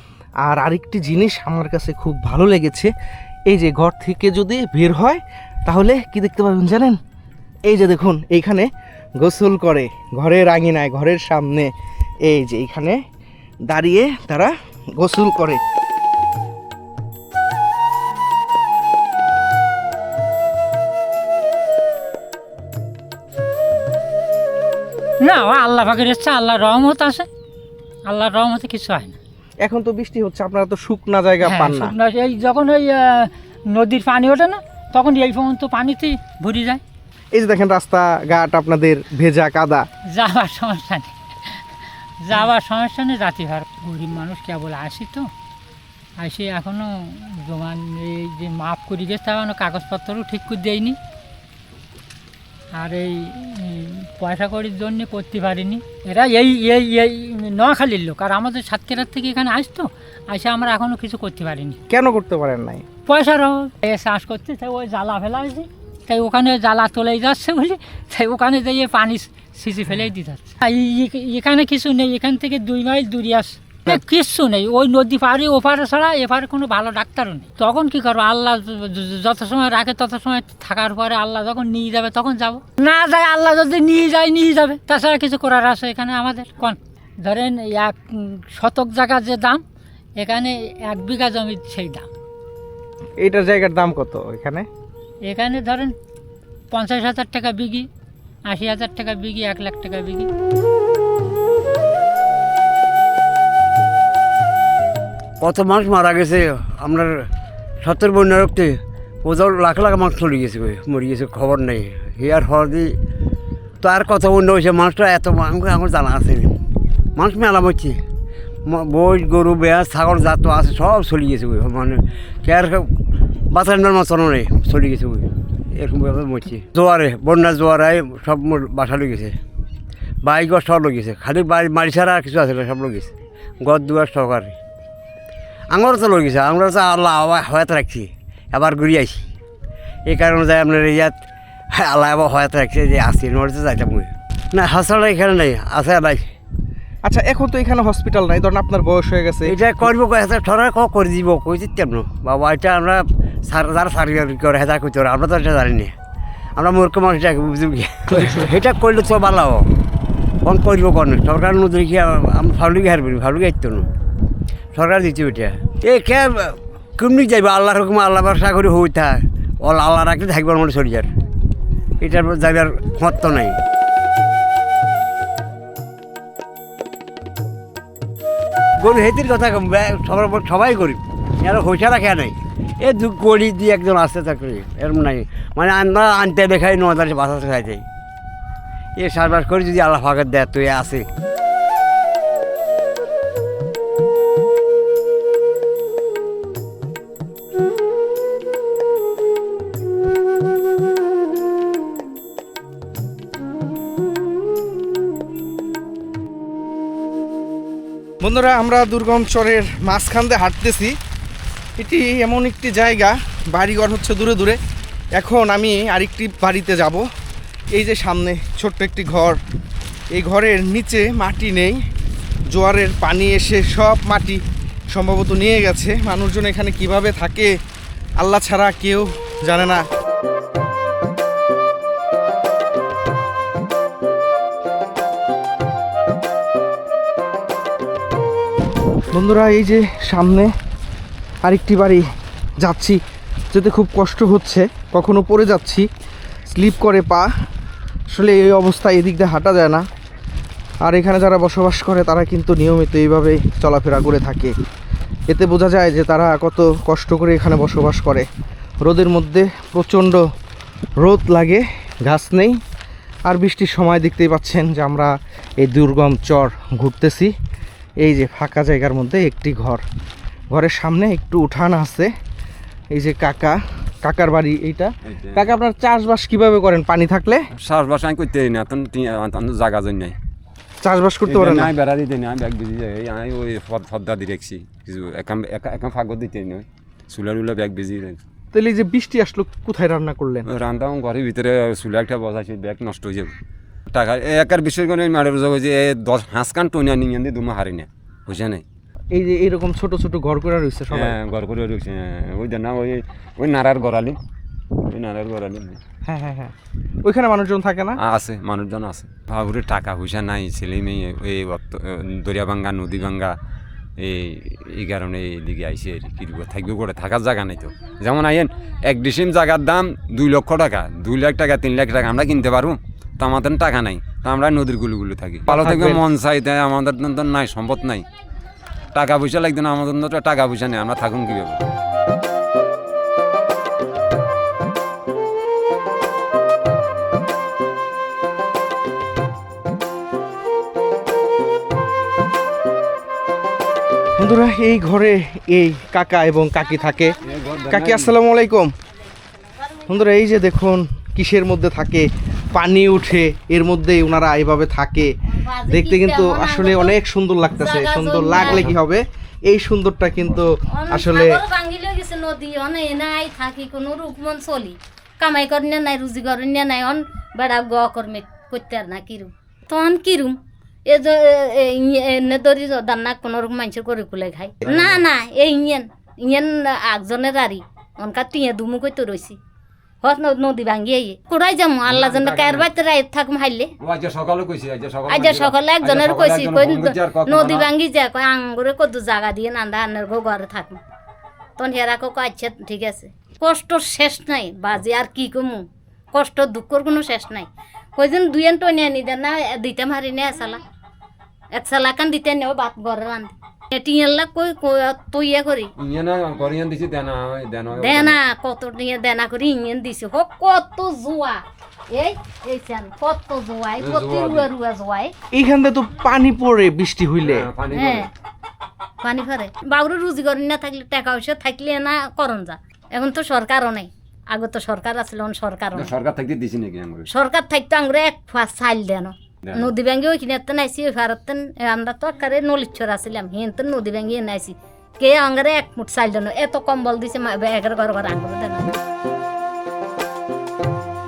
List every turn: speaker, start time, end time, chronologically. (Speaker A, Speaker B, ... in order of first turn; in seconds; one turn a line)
Speaker A: 0.4-2.9
Speaker A: 3.5-7.0
Speaker A: 7.7-11.7
Speaker A: 12.2-13.0
Speaker A: 13.7-15.6
Speaker B: 25.2-27.2
Speaker B: 28.1-29.1
Speaker A: 29.6-31.9
Speaker B: 31.4-36.8
Speaker A: 37.3-39.9
Speaker B: 40.1-41.6
Speaker B: 42.2-45.3
Speaker B: 46.2-51.0
Speaker B: 52.8-61.8
Speaker A: 61.9-62.9
Speaker B: 63.1-89.6
Speaker B: 90.2-92.1
Speaker A: 93.2-94.7
Speaker B: 95.3-95.9
Speaker B: 96.7-97.9
Speaker B: 98.5-100.3
Speaker C: 105.4-107.1
Speaker C: 107.8-113.0
Speaker C: 113.8-116.5
Speaker C: 117.2-118.0
Speaker C: 118.7-122.9
Speaker C: 123.5-129.4
Speaker C: 130.2-134.6
Speaker C: 135.7-139.2
Speaker C: 140.1-146.3
Speaker A: 147.0-149.6
Speaker C: 149.4-155.9
Speaker C: 156.6-159.7
Speaker A: 158.2-158.4
Speaker C: 160.4-163.9
Speaker C: 164.7-171.1
Speaker C: 172.0-173.6
Speaker C: 178.8-187.8
Speaker C: 189.0-191.1
Speaker A: 208.2-210.9
Speaker A: 211.8-214.6
Speaker A: 215.2-217.1
Speaker A: 217.7-219.4
Speaker A: 220.1-221.8
Speaker A: 222.5-224.4
Speaker A: 224.9-227.5
Speaker A: 228.2-229.8
Speaker A: 239.1-240.5
Speaker A: 241.4-242.1
Speaker A: 242.6-243.0
Speaker A: 243.5-245.9
Speaker A: 246.5-247.3
Speaker A: 248.1-249.8
Speaker A: 250.8-254.5
Speaker A: 255.3-258.3
Speaker A: 258.8-260.2
Speaker A: 261.0-262.6
Speaker A: 263.3-267.3
Speaker A: 268.0-269.8
Speaker A: 270.5-272.1
Speaker A: 272.9-277.4
Speaker D: 275.1-275.4
Speaker D: 277.6-280.1
Speaker A: 280.8-281.7
Speaker D: 281.3-288.2
Speaker A: 288.5-290.4
Speaker D: 290.5-293.3
Speaker D: 293.9-298.6
Speaker A: 299.1-301.1
Speaker D: 300.9-304.2
Speaker D: 304.8-305.8
Speaker A: 306.1-308.0
Speaker D: 308.0-313.4
Speaker D: 314.0-328.0
Speaker A: 325.5-326.0
Speaker D: 328.9-331.6
Speaker A: 344.2-347.1
Speaker E: 346.6-347.8
Speaker D: 347.2-348.1
Speaker A: 347.7-348.7
Speaker A: 349.9-355.1
Speaker E: 355.4-356.9
Speaker A: 355.7-361.4
Speaker E: 357.6-358.6
Speaker D: 358.3-358.7
Speaker E: 360.7-379.4
Speaker E: 380.0-383.7
Speaker D: 381.9-382.7
Speaker D: 383.8-387.7
Speaker E: 385.1-390.8
Speaker E: 391.6-400.6
Speaker E: 401.5-405.7
Speaker D: 405.8-408.2
Speaker E: 407.8-415.1
Speaker D: 413.8-414.5
Speaker A: 415.3-417.4
Speaker D: 417.2-418.1
Speaker E: 417.7-418.1
Speaker E: 419.0-425.9
Speaker D: 425.7-427.1
Speaker E: 427.1-438.7
Speaker D: 429.4-429.7